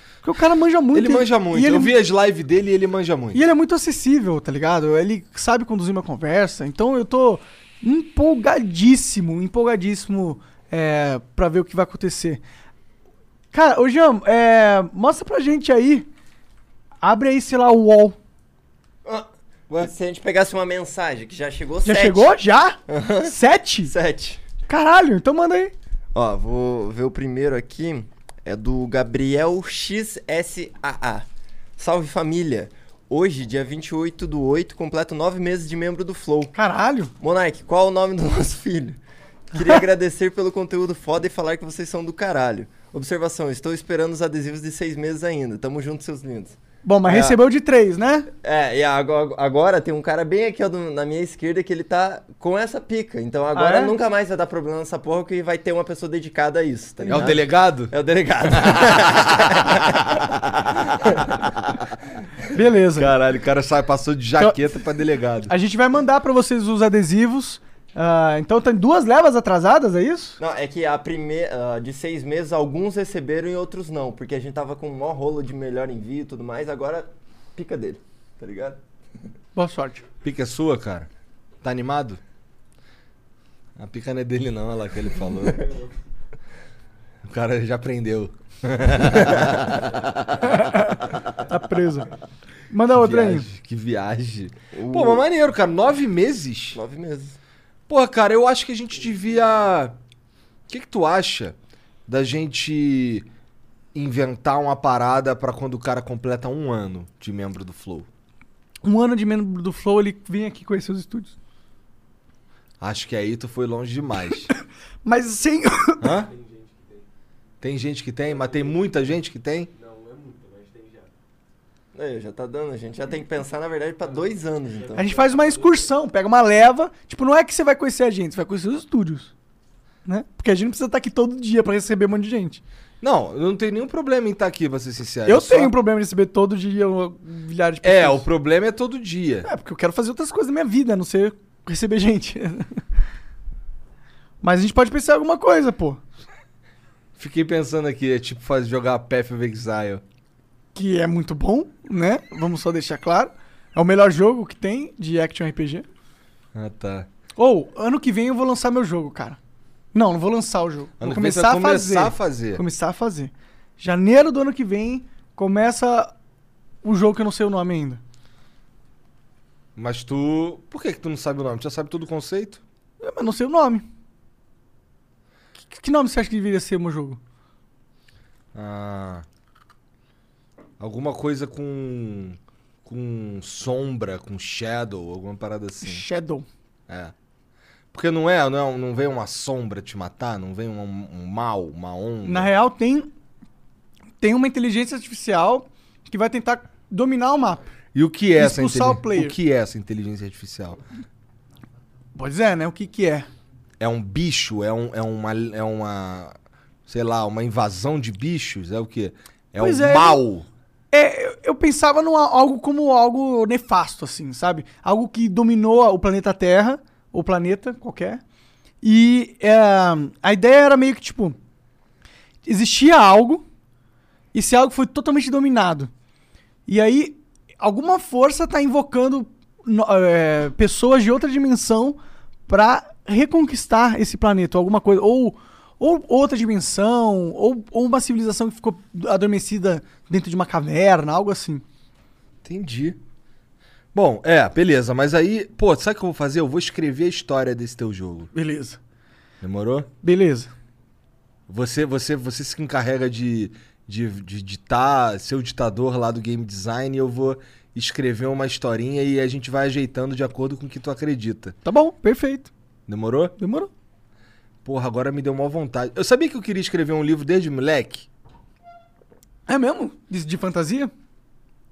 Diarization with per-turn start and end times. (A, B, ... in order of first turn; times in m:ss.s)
0:00.2-0:01.9 A
0:00.9-0:03.4 B
0:03.3-0:12.4 A
0:13.5-0:16.1 A
0:17.0-0:18.2 A
0:19.0-0:22.3 C
0:21.8-0:23.9 A
0:22.9-0:24.4 C
0:24.7-0:25.7 A
0:26.1-0:31.3 C
0:31.8-0:36.5 C
0:36.5-0:37.1 A
0:37.2-0:39.0 C
0:39.5-0:46.6 C
0:46.8-0:48.3 A
0:48.4-1:00.2 C
0:53.6-0:53.9 A
0:57.0-0:57.3 A
0:57.1-0:57.9 B
0:58.6-0:59.2 B
1:00.9-1:01.4 C
1:02.5-1:03.1 A
1:03.0-1:05.5 B
1:05.5-1:10.4 A
1:10.4-1:18.8 C
1:19.6-1:20.0 A
1:20.2-1:21.1 B
1:21.6-1:22.2 B
1:23.8-1:25.7 B
1:27.2-1:30.1 B
1:30.5-1:32.1 A
1:32.7-1:33.5 A
1:32.9-1:36.8 B
1:34.8-1:35.2 C
1:36.7-1:37.4 C
1:37.9-1:40.0 B
1:40.7-1:41.6 B
1:42.1-1:43.3 B
1:43.9-1:48.1 B
1:48.8-1:51.4 A
1:52.8-1:54.5 B
1:55.0-1:56.2 A
1:56.0-1:56.3 B
1:57.6-1:59.7 B
2:01.9-2:05.2 C
2:05.0-2:09.3 A
2:10.1-2:12.6 A
2:13.0-2:15.7 B
2:15.3-2:18.3 A
2:17.8-2:19.5 B
2:19.4-2:22.8 A
2:24.4-2:26.0 A
2:27.2-2:30.0 B
2:30.8-2:35.9 A
2:36.5-2:37.1 B
2:37.4-2:39.4 A
2:39.9-2:46.1 A
2:41.0-2:42.6 B
2:46.8-2:48.0 A
2:49.8-2:52.6 B
2:53.0-2:53.9 A
2:55.7-2:57.2 A
2:58.5-2:59.2 B
3:00.8-3:06.0 B
3:05.8-3:06.5 A
3:06.9-3:07.1 B
3:07.9-3:12.5 B
3:12.2-3:13.1 A
3:14.2-3:17.7 A
3:17.9-3:20.8 B
3:18.4-3:19.4 A
3:22.2-3:23.3 A
3:23.8-3:26.4 B
3:26.9-3:30.5 B
3:29.6-3:30.2 A
3:30.9-3:38.2 A
3:38.8-3:41.4 A
3:42.5-3:43.4 A
3:44.3-3:45.9 A
3:46.7-4:01.6 A
4:02.4-4:03.0 B
4:03.9-4:08.3 B
4:08.3-4:08.8 A
4:09.4-4:09.9 B
4:10.0-4:10.5 A
4:11.5-4:21.6 B
4:21.6-4:22.5 A
4:22.9-4:23.4 B
4:23.4-4:23.7 A
4:24.6-4:28.1 B
4:29.5-4:30.9 A